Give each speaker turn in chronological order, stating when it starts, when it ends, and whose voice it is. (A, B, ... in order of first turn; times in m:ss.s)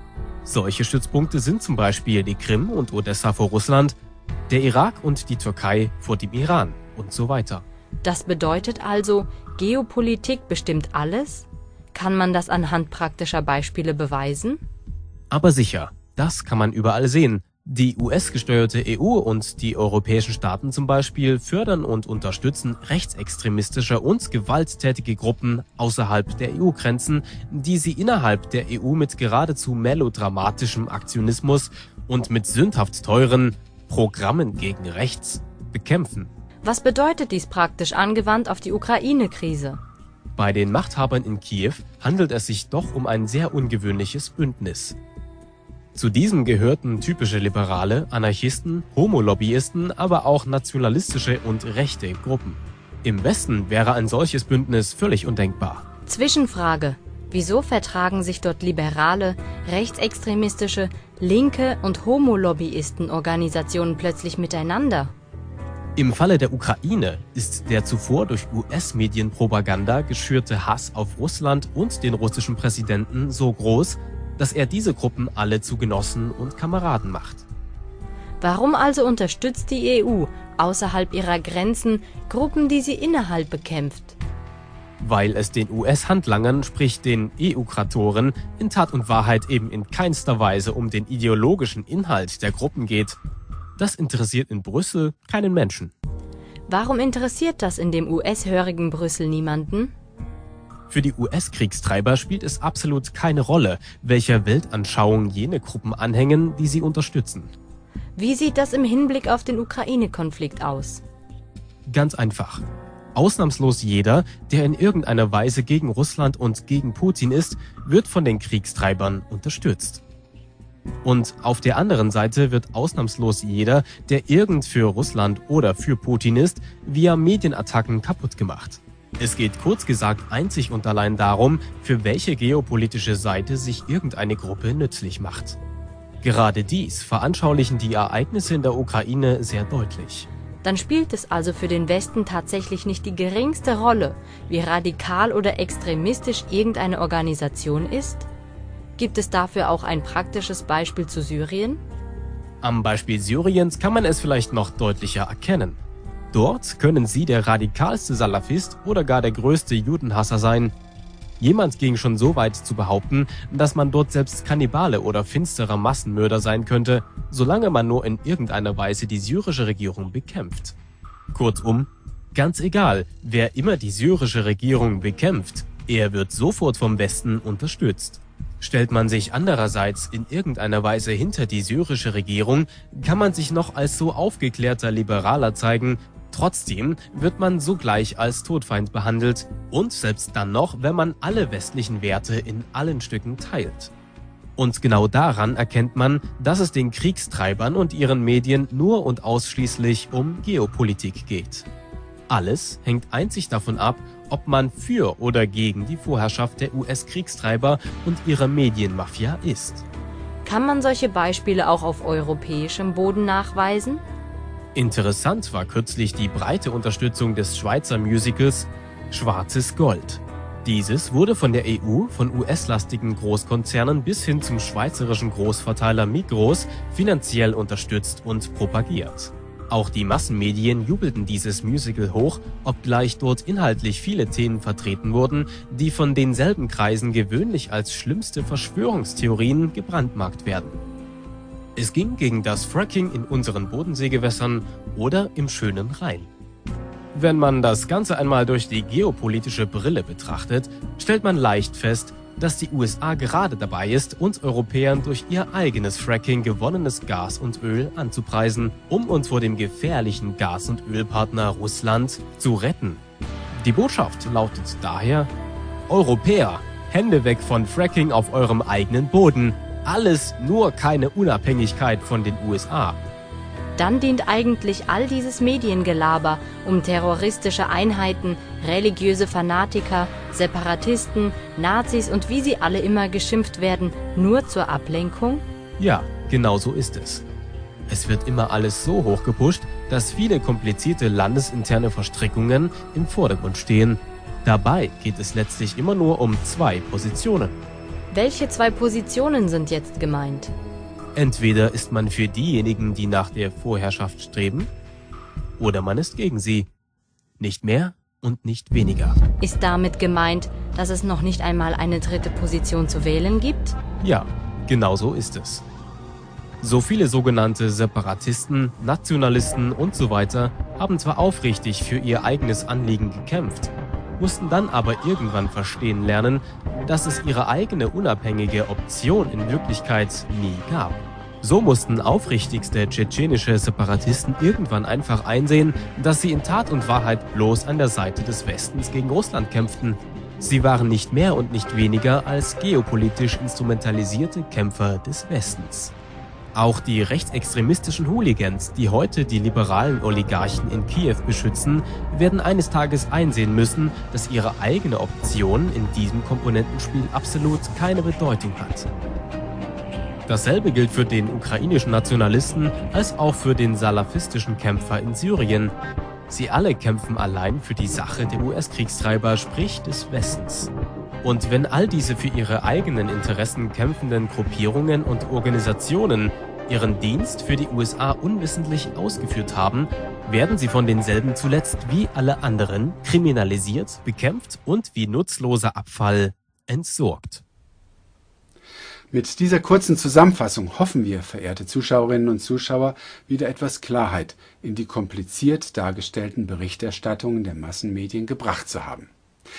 0:00.4-0:04.0 A
0:04.5-0:07.6 A
0:08.0-0:14.6 B
0:15.3-0:36.3 A
0:36.6-0:39.8 B
0:40.4-0:45.0 A
0:46.0-0:55.8 A
0:56.1-1:05.1 B
1:06.0-1:17.4 A
1:18.4-1:24.2 B
1:25.0-1:33.2 A
1:33.8-1:35.9 A
1:36.7-1:39.9 B
1:40.9-1:47.5 A
1:48.2-1:51.0 B
1:51.9-2:00.0 A
2:01.0-2:15.6 A
2:16.2-2:20.3 A
2:20.6-2:28.3 B
2:29.0-2:31.8 B
2:32.6-2:35.8 A
2:36.3-2:40.7 A
2:41.4-2:50.8 A
2:51.3-3:13.9 A
3:14.6-3:21.7 A
3:22.3-3:29.8 A
3:30.4-3:34.0 B
3:34.8-4:00.8 A
4:01.8-4:06.3 A
4:07.1-4:23.0 A
4:23.6-4:25.3 A
4:25.9-4:33.0 A
4:33.8-4:45.4 B
4:45.8-4:47.2 A
4:47.9-4:57.6 A
4:58.1-5:00.5 B
5:01.2-5:04.7 A
5:05.6-5:06.7 A
5:07.4-5:09.2 A
5:09.4-5:13.8 B
5:14.0-5:15.6 A
5:16.6-5:45.9 A
5:46.6-5:58.9 A
6:00.3-6:05.8 A
6:06.3-6:10.7 A
6:11.2-6:27.4 A
6:29.1-6:39.1 C